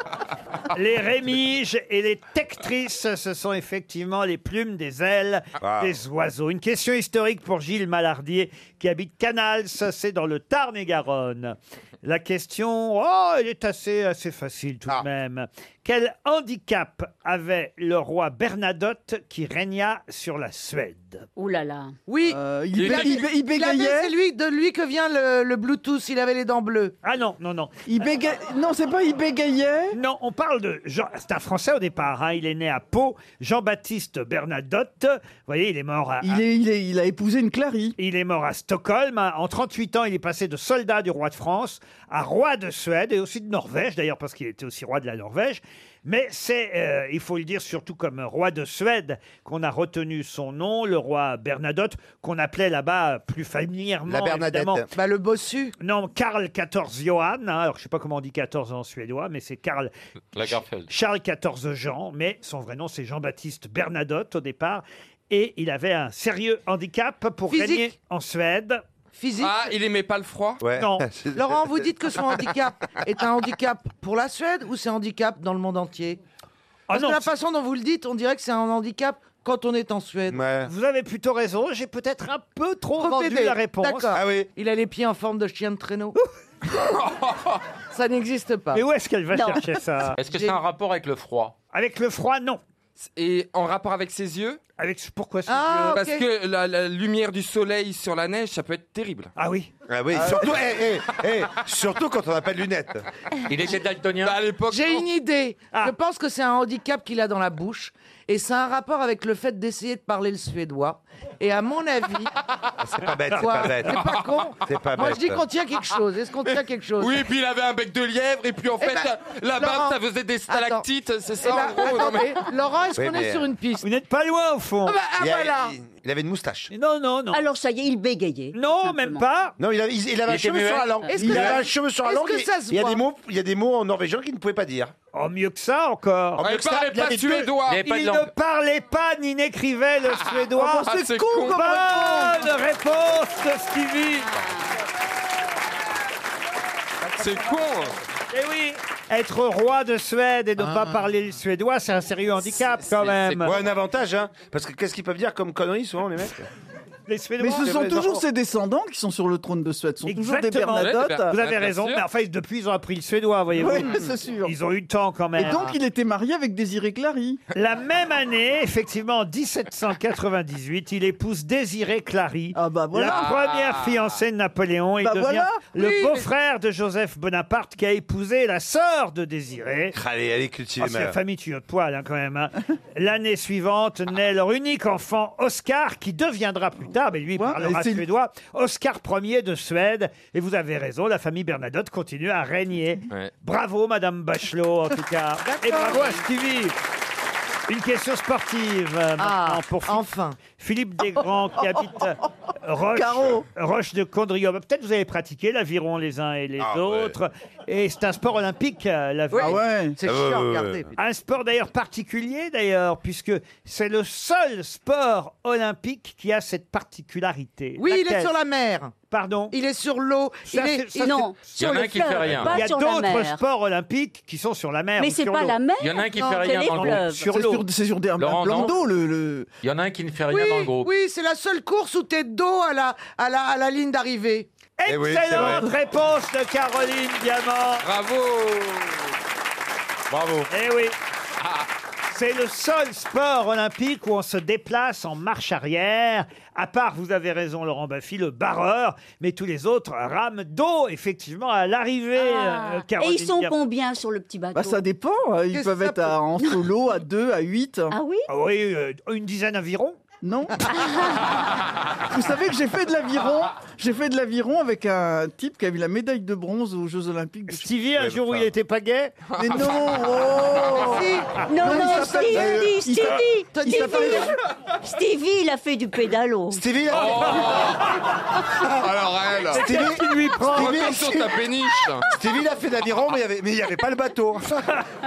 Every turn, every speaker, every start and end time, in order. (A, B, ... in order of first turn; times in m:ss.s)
0:00.7-0:21.3 A
0:05.6-0:06.0 B
0:21.4-0:21.9 C
0:22.1-0:27.0 D
0:22.2-0:24.1 E
0:22.8-0:23.2 F
0:27.0-0:27.7 A
0:27.9-0:30.0 E
0:29.9-0:36.4 A
0:36.2-0:38.0 E
0:38.0-0:54.8 A
0:54.1-0:54.9 B
0:54.9-0:55.7 D
0:55.8-1:08.8 A
1:00.3-1:00.9 F
1:07.5-1:07.9 D
1:09.2-1:09.5 D
1:09.4-1:10.6 G
1:10.6-1:11.9 B
1:10.7-1:11.0 A
1:11.3-1:16.2 D
1:16.9-1:17.3 A
1:16.9-1:20.4 D
1:20.3-1:20.7 B
1:20.6-1:24.2 A
1:23.0-1:26.2 D
1:24.1-1:24.5 B
1:26.8-1:27.6 G
1:27.9-1:28.8 D
1:28.7-1:30.2 A
1:29.3-1:29.6 C
1:30.2-1:31.5 F
1:30.2-1:30.6 D
1:31.7-1:32.6 A
1:33.0-1:34.6 G
1:34.8-1:36.0 A
1:35.5-1:36.2 D
1:35.9-1:39.3 G
1:39.4-1:39.7 A
1:39.9-1:43.0 B
1:43.4-1:44.4 F
1:44.2-1:45.0 G
1:44.7-1:52.3 D
1:52.8-1:54.0 B
1:53.3-1:53.9 A
1:53.3-1:57.2 D
1:54.6-1:55.4 B
1:57.0-2:02.4 G
1:58.8-2:00.0 D
2:00.5-2:00.8 D
2:01.4-2:03.8 D
2:02.9-2:03.5 B
2:03.8-2:05.0 A
2:04.8-2:05.7 D
2:05.2-2:06.7 B
2:06.7-2:07.4 A
2:07.3-2:09.2 C
2:08.5-2:09.5 A
2:09.6-2:14.9 B
2:10.3-2:11.3 F
2:11.1-2:13.0 D
2:11.2-2:11.5 E
2:15.1-2:16.4 A
2:16.4-2:17.5 B
2:16.4-2:17.9 G
2:17.7-2:18.3 F
2:17.8-2:20.9 A
2:20.3-2:21.6 G
2:20.6-2:22.5 E
2:21.5-2:24.3 A
2:27.2-2:28.0 G
2:28.3-2:33.6 A
2:32.7-2:33.5 G
2:33.4-2:36.5 B
2:37.1-2:38.2 A
2:37.4-2:41.3 E
2:37.6-2:38.2 B
2:40.0-2:45.8 A
2:40.7-2:42.0 G
2:43.5-2:44.5 E
2:45.4-2:47.4 E
2:47.5-3:00.0 A
2:52.5-2:53.3 E
2:53.1-2:54.1 G
2:55.0-2:55.7 E
2:55.8-2:56.2 D
2:59.9-3:01.2 B
3:00.8-3:16.7 A
3:07.4-3:08.0 E
3:15.4-3:16.2 D
3:17.7-3:29.6 A
3:19.2-3:20.4 D
3:22.9-3:23.4 E
3:26.6-3:27.2 B
3:29.3-3:30.9 D
3:29.4-3:30.0 E
3:30.0-3:30.9 B
3:31.0-3:38.3 A
3:37.8-3:38.9 D
3:39.1-3:39.6 A
3:39.5-3:41.2 D
3:40.5-3:45.6 A
3:41.0-3:43.4 C
3:41.5-3:42.6 F
3:45.0-3:47.2 C
3:45.8-3:47.0 F
3:46.2-3:46.6 D
3:46.6-3:47.6 A
3:47.2-3:49.5 E
3:48.2-3:48.8 F
3:49.6-3:50.9 F
3:50.3-3:54.5 D
3:54.8-3:57.8 A
3:54.8-3:55.7 B
3:55.4-3:55.7 E
3:57.8-3:59.1 G
4:00.1-4:00.5 B
4:00.5-4:00.9 A
4:02.1-4:13.5 A
4:12.2-4:14.8 C
4:14.5-4:17.9 E
4:15.5-4:16.2 D
4:17.9-4:18.3 C
4:18.3-4:20.0 A
4:20.2-4:20.6 E
4:20.7-4:21.2 C
4:22.1-4:27.7 E
4:27.5-4:29.2 A
4:27.9-4:28.5 B
4:29.4-4:34.4 E
4:29.4-4:29.8 G
4:30.8-4:32.4 D
4:31.5-4:36.6 C
4:32.4-4:32.7 B
4:33.5-4:34.3 D
4:36.5-4:37.8 B
4:36.9-4:37.9 G
4:38.6-4:39.6 G
4:39.5-4:41.0 A
4:39.5-4:41.4 B
4:40.4-4:42.1 G
4:42.0-4:44.8 B